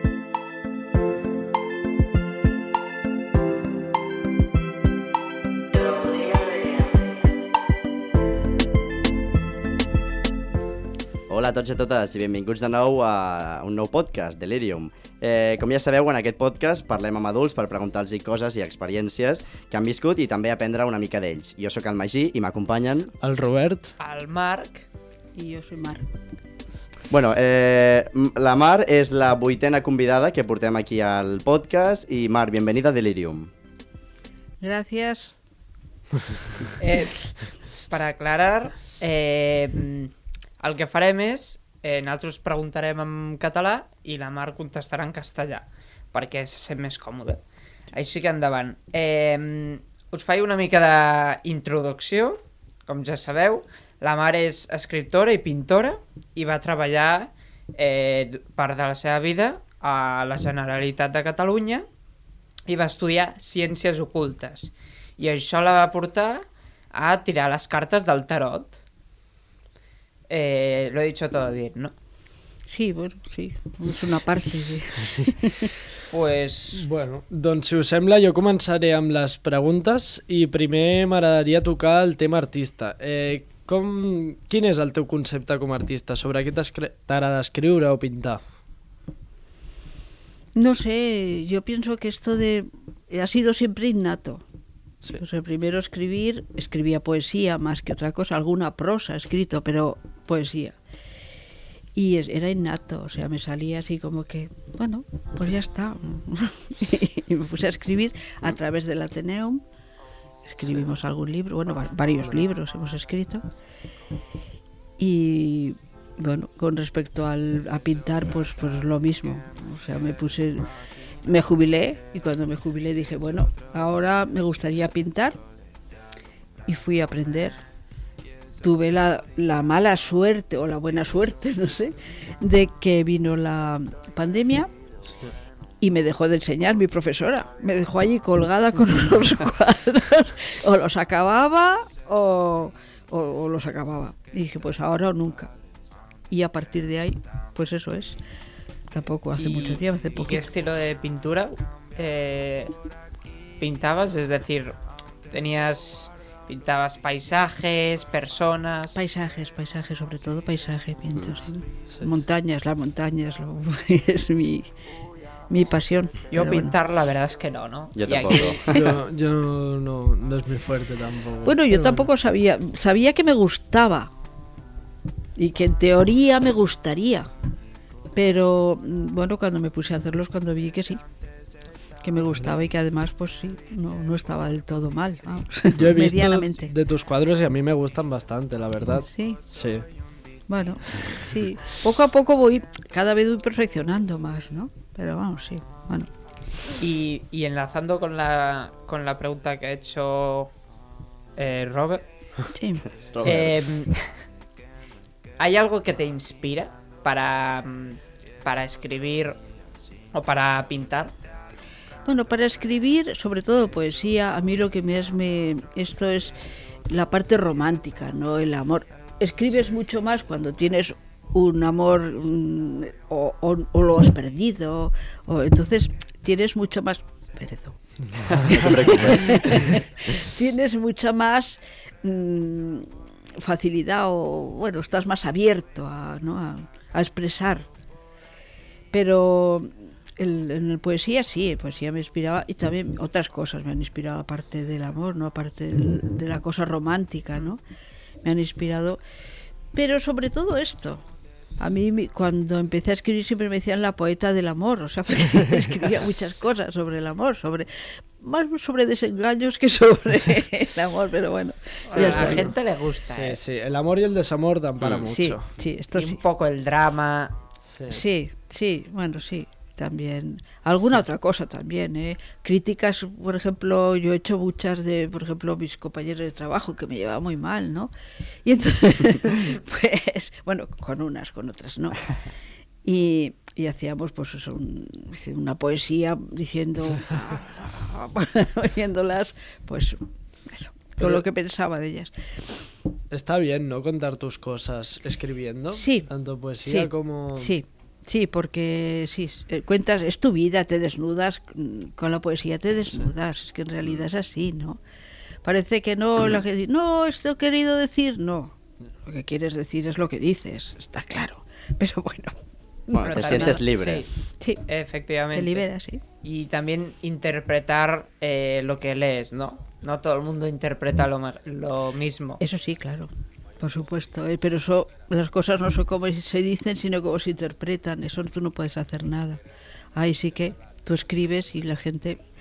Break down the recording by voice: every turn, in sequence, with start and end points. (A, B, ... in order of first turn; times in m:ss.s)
0:11.3-0:23.1 A
0:23.2-0:23.9 B
0:24.0-0:24.9 C
0:25.4-0:26.1 D
0:27.1-0:33.5 A
0:34.6-0:35.3 D
0:36.8-0:37.3 C
0:37.9-0:47.4 C
0:47.9-1:01.9 C
1:02.7-1:08.7 C
1:10.3-1:11.9 C
1:12.7-1:15.7 D
1:16.1-1:16.9 C
1:16.7-1:28.4 B
1:30.5-1:34.4 D
1:35.1-1:40.8 D
1:42.0-1:49.6 D
1:50.4-1:53.4 D
1:55.0-2:00.7 D
2:01.2-2:05.4 D
2:06.7-2:07.6 D
2:08.6-2:14.7 D
2:15.1-2:15.3 B
2:15.8-2:25.5 D
2:26.3-2:28.2 D
2:28.9-2:30.5 D
2:29.4-2:32.7 C
2:33.6-2:34.8 C
2:35.3-2:39.0 C
2:38.9-2:44.7 D
2:41.1-2:41.4 A
2:45.5-2:46.7 D
2:46.3-2:48.6 C
2:48.0-2:48.9 A
2:48.6-2:52.1 B
2:51.4-2:54.1 D
2:55.4-2:57.3 D
2:58.1-3:01.0 D
3:02.0-3:06.7 D
3:05.7-3:09.8 B
3:09.0-3:09.4 D
3:10.5-3:16.1 D
3:16.8-3:20.5 C
3:21.4-3:22.0 C
3:22.5-3:22.9 D
3:23.0-3:23.7 A
3:23.2-3:24.0 C
3:25.4-3:29.4 C
3:30.1-3:31.1 C
3:32.0-3:36.4 D
3:36.9-3:47.8 D
3:48.2-3:48.6 B
3:48.2-3:49.7 A
3:48.4-3:57.7 D
3:58.9-4:07.6 D
4:08.2-4:09.0 D
4:09.7-4:11.0 D
4:11.6-4:22.5 D
4:21.8-4:23.4 C
4:21.9-4:22.5 B
4:23.1-4:25.4 B
4:24.8-4:25.1 A
4:25.1-4:26.2 D
4:25.9-4:27.3 C
4:27.7-4:28.0 B
4:27.9-4:37.9 D
4:38.4-4:42.1 D
4:42.8-4:52.1 D
4:53.1-4:57.6 B
4:55.7-4:56.1 D
4:56.6-5:04.8 D
5:05.4-5:12.4 D
5:12.9-5:13.6 D
5:12.9-5:14.1 A
5:13.0-5:14.1 C
5:14.7-5:15.7 C
5:15.3-5:16.0 D
5:16.2-5:22.4 C
5:22.4-5:29.4 D
5:29.9-5:32.2 D